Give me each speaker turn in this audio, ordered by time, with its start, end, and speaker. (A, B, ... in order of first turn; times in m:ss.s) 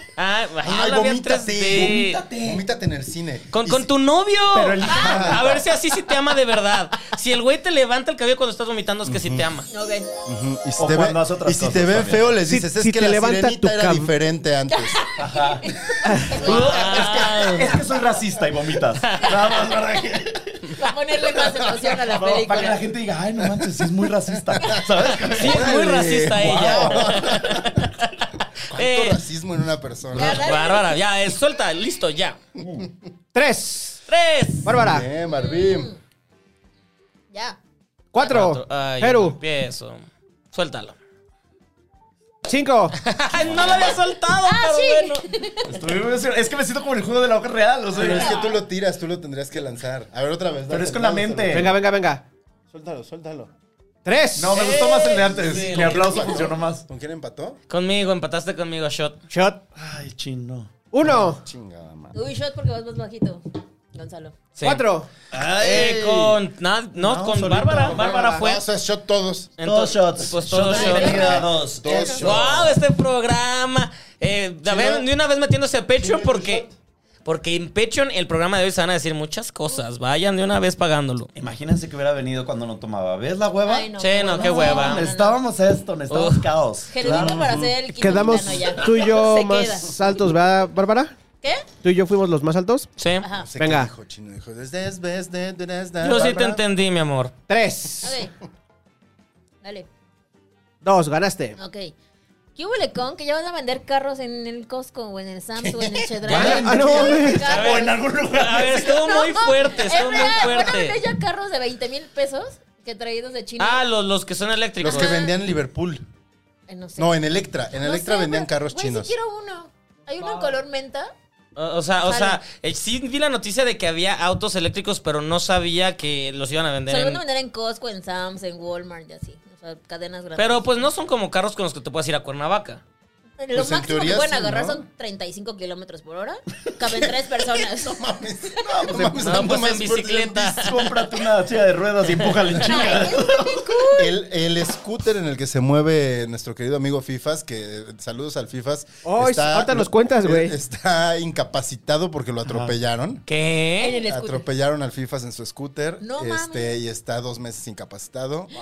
0:00.2-0:02.2 A
0:00.6-0:03.9 B
0:01.7-0:02.6 C
0:03.5-0:09.7 A
0:04.5-0:05.7 C
0:04.8-0:05.4 B
0:09.0-0:09.5 B
0:09.7-0:10.1 D
0:10.2-0:15.0 B
0:10.8-0:12.4 C
0:12.4-0:14.1 E
0:14.7-0:17.2 D
0:15.2-0:15.7 C
0:16.0-0:16.4 E
0:16.3-0:20.8 C
0:16.4-0:17.8 A
0:19.0-0:19.6 A
0:20.7-0:22.9 D
0:22.0-0:25.8 C
0:23.4-0:27.8 B
0:25.2-0:29.2 A
0:26.4-0:27.3 C
0:28.7-0:30.6 B
0:30.1-0:31.0 D
0:30.1-0:32.4 A
0:32.6-0:32.8 C
0:33.3-0:34.0 E
0:34.1-0:34.7 A
0:34.6-0:35.1 E
0:34.7-0:35.9 B
0:35.3-0:36.0 D
0:37.3-0:37.6 D
0:38.1-0:39.4 E
0:38.2-0:41.0 A
0:42.4-0:43.0 E
0:43.0-0:45.2 A
0:43.3-0:44.0 B
0:44.4-0:45.8 D
0:45.7-0:48.4 C
0:47.9-0:51.8 B
0:48.0-0:48.6 D
0:50.7-0:51.7 C
0:51.5-0:52.2 E
0:52.7-0:53.5 B
0:54.0-0:54.6 E
0:54.4-0:56.8 C
0:54.5-0:56.4 A
0:55.6-0:57.6 B
0:57.7-0:59.2 A
0:59.3-0:59.6 E
0:59.7-1:01.1 C
1:00.9-1:01.4 E
1:01.0-1:02.2 B
1:02.1-1:04.4 D
1:04.6-1:04.8 A
1:04.6-1:05.1 E
1:05.3-1:06.4 C
1:05.6-1:08.6 A
1:06.9-1:08.4 C
1:07.9-1:08.4 E
1:08.4-1:09.5 B
1:09.6-1:11.4 A
1:09.6-1:12.8 C
1:10.7-1:12.2 D
1:11.0-1:12.8 B
1:12.2-1:16.6 A
1:14.6-1:15.1 B
1:16.0-1:16.7 B
1:17.2-1:21.3 A
1:21.3-1:27.7 C
1:23.6-1:25.4 D
1:24.0-1:25.1 A
1:26.1-1:26.5 A
1:26.9-1:30.0 D
1:27.0-1:27.7 B
1:28.0-1:31.1 E
1:31.4-1:31.7 D
1:31.8-1:32.9 E
1:33.0-1:33.2 A
1:33.2-1:33.5 D
1:33.4-1:36.6 B
1:33.6-1:33.9 E
1:36.0-1:37.3 A
1:37.5-1:38.2 E
1:38.0-1:38.3 D
1:39.6-1:39.9 D
1:40.8-1:41.6 E
1:41.6-1:41.9 D
1:42.6-1:48.0 D
1:45.6-1:46.6 B
1:46.3-1:49.0 C
1:46.3-1:47.5 E
1:47.4-1:51.0 A
1:48.9-1:53.8 D
1:53.6-1:55.2 A
1:54.8-1:56.0 B
1:54.8-1:55.3 D
1:56.7-1:57.1 D
1:57.0-1:59.1 B
1:57.8-2:01.1 D
2:01.6-2:07.2 A
2:02.0-2:02.4 D
2:06.9-2:10.8 D
2:10.4-2:12.8 A
2:13.4-2:18.5 D
2:13.5-2:14.8 B
2:16.8-2:20.8 B
2:18.6-2:19.4 C
2:19.2-2:21.1 A
2:20.6-2:23.8 C
2:22.6-2:24.1 D
2:23.9-2:33.2 B
2:29.0-2:30.5 E
2:32.5-2:32.7 C
2:33.3-2:34.0 A
2:33.8-2:34.4 D
2:34.0-2:38.5 B
2:36.0-2:36.8 D